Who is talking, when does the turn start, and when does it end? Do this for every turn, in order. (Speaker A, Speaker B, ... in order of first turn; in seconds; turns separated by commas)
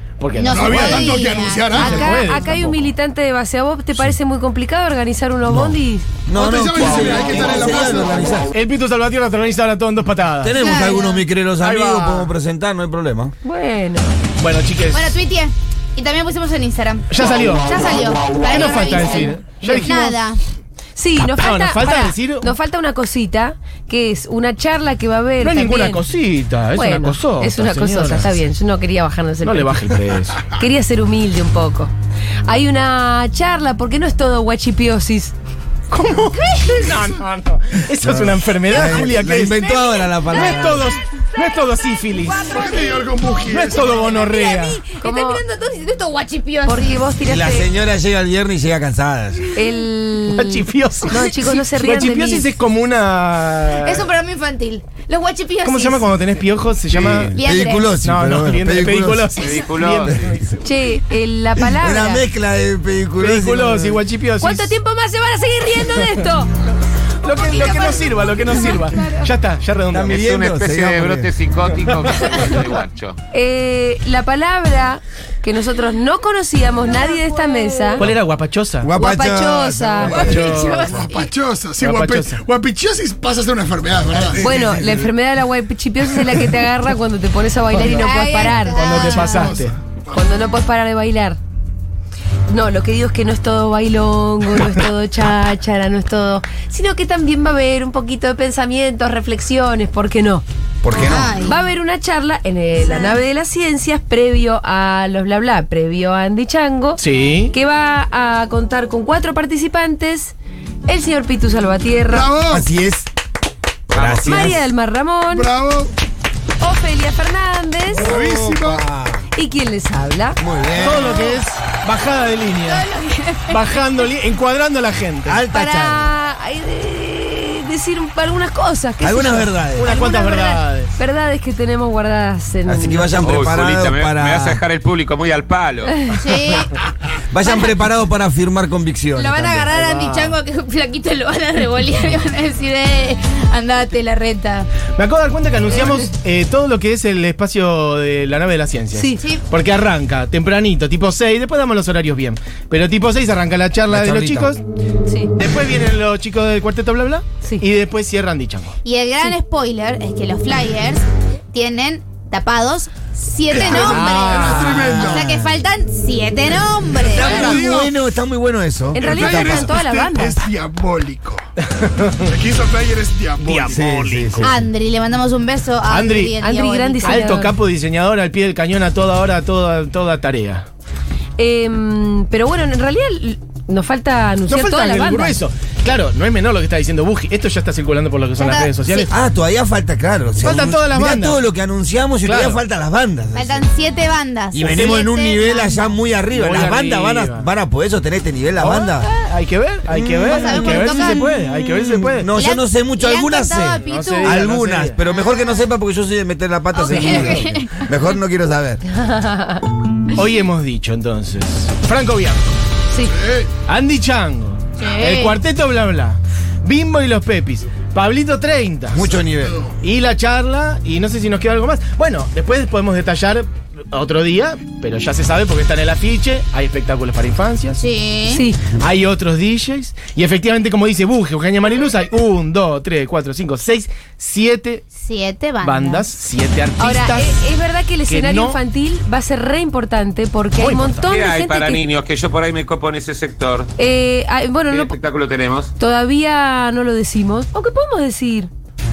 Speaker A: 0.2-1.2, Speaker B: 0.4-2.2, Speaker C: 0.5-2.3, Speaker D: 1.7-6.1, Speaker A: 1.8-2.7, Speaker E: 5.5-8.5, Speaker C: 6.3-8.3, Speaker A: 8.5-10.8, Speaker E: 10.4-13.3, Speaker B: 10.5-11.2, Speaker A: 11.6-12.3, Speaker D: 13.4-14.1, Speaker A: 14.4-15.2, Speaker B: 14.9-20.4, Speaker A: 17.1-17.8, Speaker A: 18.4-20.2, Speaker D: 18.6-19.9, Speaker D: 20.9-26.0, Speaker A: 21.2-22.5, Speaker A: 25.4-28.4, Speaker D: 26.7-30.0, Speaker A: 29.4-30.5, Speaker D: 30.5-31.9, Speaker D: 32.5-35.3, Speaker A: 35.9-39.7, Speaker E: 38.0-40.9, Speaker B: 39.7-40.6, Speaker A: 40.2-42.5, Speaker B: 42.2-47.0, Speaker C: 42.5-44.0, Speaker A: 43.5-44.8, Speaker D: 45.0-45.4, Speaker D: 46.6-47.7, Speaker E: 47.2-49.5, Speaker D: 49.5-52.5, Speaker A: 50.3-54.1, Speaker B: 53.7-56.1, Speaker A: 55.6-57.4, Speaker E: 56.9-59.4, Speaker B: 57.4-58.0, Speaker A: 58.0-60.5, Speaker F: 59.4-60.3, Speaker E: 60.0-60.4, Speaker D: 60.6-62.2, Speaker E: 61.6-64.0, Speaker A: 63.2-64.7, Speaker D: 64.4-66.5, Speaker A: 67.2-70.2, Speaker B: 67.4-69.2, Speaker D: 67.5-68.8, Speaker E: 69.9-71.3, Speaker F: 70.0-73.2, Speaker D: 73.3-78.1, Speaker B: 77.0-78.0, Speaker A: 78.0-78.9, Speaker E: 78.8-80.4, Speaker D: 79.0-80.3, Speaker C: 80.0-85.1, Speaker B: 80.1-81.3, Speaker A: 80.2-80.9, Speaker A: 81.8-82.4, Speaker D: 84.4-89.5, Speaker A: 87.7-88.1, Speaker B: 87.9-89.5, Speaker A: 88.7-89.7, Speaker C: 88.8-90.3, Speaker D: 90.1-91.4, Speaker D: 92.5-100.4, Speaker E: 100.8-101.4, Speaker B: 100.9-101.6, Speaker D: 101.0-110.3, Speaker A: 107.0-107.5, Speaker D: 110.9-112.3, Speaker C: 112.1-112.7, Speaker E: 112.5-113.1, Speaker E: 113.9-114.6, Speaker D: 114.2-115.5, Speaker C: 115.3-115.9, Speaker D: 116.6-118.1, Speaker E: 118.0-119.3, Speaker C: 118.0-118.8, Speaker D: 119.3-120.4, Speaker E: 120.4-121.3, Speaker A: 120.7-122.9, Speaker B: 122.6-123.6, Speaker A: 123.5-125.4, Speaker E: 125.2-126.1, Speaker D: 125.5-133.3, Speaker E: 129.0-130.0, Speaker A: 129.8-130.9, Speaker E: 132.7-134.6, Speaker F: 133.2-136.1, Speaker B: 136.2-136.7, Speaker E: 137.3-139.7, Speaker B: 137.4-137.7, Speaker B: 139.1-144.7, Speaker A: 139.7-140.3, Speaker A: 145.0-154.6, Speaker D: 148.9-149.2, Speaker B: 149.2-149.4, Speaker E: 153.9-154.6, Speaker A: 155.4-158.7, Speaker B: 158.8-167.6, Speaker C: 163.5-165.3, Speaker A: 163.7-164.7, Speaker E: 164.3-165.6, Speaker E: 166.9-169.7, Speaker C: 167.1-167.9, Speaker D: 168.9-170.4, Speaker C: 169.0-171.4, Speaker A: 171.7-172.3, Speaker C: 172.2-174.0, Speaker A: 173.4-174.6, Speaker E: 173.7-174.6, Speaker B: 174.4-177.4, Speaker A: 175.8-176.3, Speaker D: 176.4-177.6, Speaker A: 177.0-180.7, Speaker D: 181.4-185.4, Speaker A: 184.5-189.1, Speaker B: 188.4-189.1, Speaker E: 189.1-193.7, Speaker A: 190.4-191.4, Speaker A: 192.2-192.6, Speaker B: 193.3-195.9, Speaker E: 194.5-199.1, Speaker A: 196.3-197.5, Speaker A: 198.6-202.3, Speaker E: 199.9-200.8, Speaker B: 200.2-201.7, Speaker E: 201.7-208.8, Speaker B: 202.3-204.5, Speaker A: 203.8-205.0, Speaker B: 205.1-205.6, Speaker B: 206.7-207.8, Speaker A: 206.9-207.5, Speaker D: 208.9-209.6, Speaker A: 210.1-212.6, Speaker C: 213.0-213.5, Speaker A: 213.7-219.1, Speaker B: 214.8-215.4, Speaker E: 218.9-219.6, Speaker C: 219.0-219.8, Speaker A: 219.8-227.8, Speaker B: 227.8-228.4, Speaker D: 228.3-228.6, Speaker A: 228.7-234.8, Speaker B: 234.9-236.0, Speaker A: 235.6-237.4, Speaker D: 236.8-241.8, Speaker A: 238.1-238.6, Speaker A: 240.6-241.1, Speaker F: 241.0-243.7, Speaker D: 243.8-244.9, Speaker F: 244.7-245.7, Speaker D: 245.8-248.5